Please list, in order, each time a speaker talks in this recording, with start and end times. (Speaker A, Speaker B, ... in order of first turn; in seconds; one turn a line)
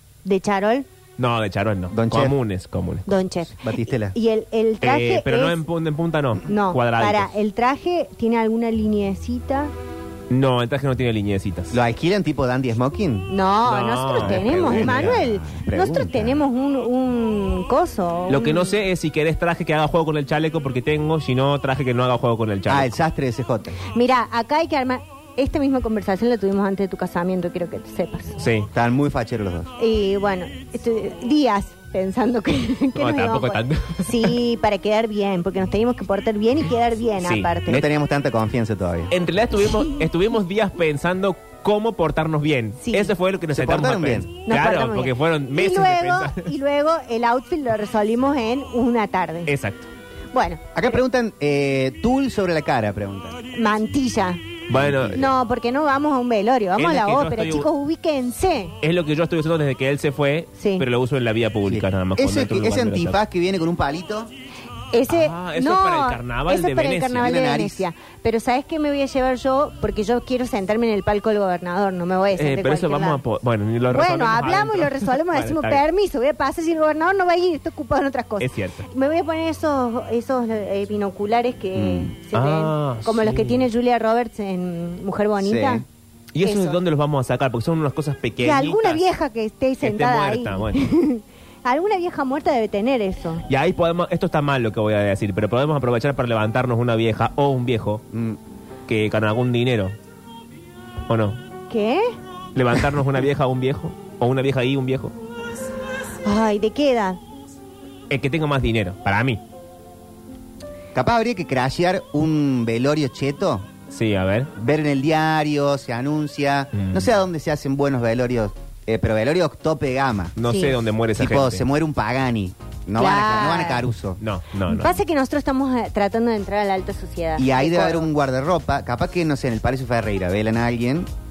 Speaker A: 0.2-0.9
Speaker B: 1.2-3.1
Speaker C: 1.9-2.4
Speaker A: 3.1-5.6
Speaker C: 3.6-4.1
Speaker B: 4.8-7.3
Speaker A: 6.5-9.7
Speaker B: 10.3-11.8
Speaker C: 11.7-13.3
Speaker A: 13.3-18.8
Speaker B: 13.6-15.2
Speaker C: 14.2-16.4
Speaker B: 18.3-22.9
Speaker C: 22.7-23.8
Speaker A: 23.9-28.4
Speaker B: 28.4-28.7
Speaker C: 28.7-29.7
Speaker A: 29.8-37.9
Speaker B: 33.0-34.4
Speaker B: 37.2-37.8
Speaker C: 37.7-39.1
Speaker B: 39.1-46.5
Speaker A: 39.7-40.0
Speaker A: 42.8-43.1
Speaker C: 43.5-44.3
Speaker A: 44.5-49.5
Speaker B: 49.5-49.9
Speaker A: 50.3-50.8
Speaker C: 50.7-53.4
Speaker A: 53.5-54.4
Speaker B: 54.7-55.2
Speaker C: 54.7-55.3
Speaker A: 55.1-58.7
Speaker B: 56.8-57.7
Speaker B: 58.8-63.2
Speaker A: 60.6-60.9
Speaker C: 61.6-64.3
Speaker A: 64.9-73.2
Speaker B: 65.1-67.3
Speaker C: 67.2-67.8
Speaker B: 72.3-75.8
Speaker A: 73.9-85.8
Speaker B: 78.4-78.9
Speaker C: 81.7-82.1
Speaker B: 82.3-83.7
Speaker C: 85.4-85.8
Speaker B: 86.3-89.0
Speaker A: 86.4-86.8
Speaker A: 88.4-93.4
Speaker B: 89.8-90.8
Speaker B: 93.5-98.0
Speaker C: 98.1-98.4
Speaker B: 98.9-100.0
Speaker B: 101.1-101.4
Speaker A: 101.7-102.1
Speaker B: 102.5-105.1
Speaker A: 106.2-107.2
Speaker B: 108.1-109.4
Speaker C: 110.9-113.7
Speaker B: 113.9-114.5
Speaker C: 114.5-120.3
Speaker B: 116.7-117.1
Speaker B: 120.3-121.7
Speaker A: 120.5-120.8
Speaker C: 121.2-124.2
Speaker A: 123.0-123.8
Speaker B: 124.2-125.0
Speaker A: 124.7-128.1
Speaker C: 127.4-131.1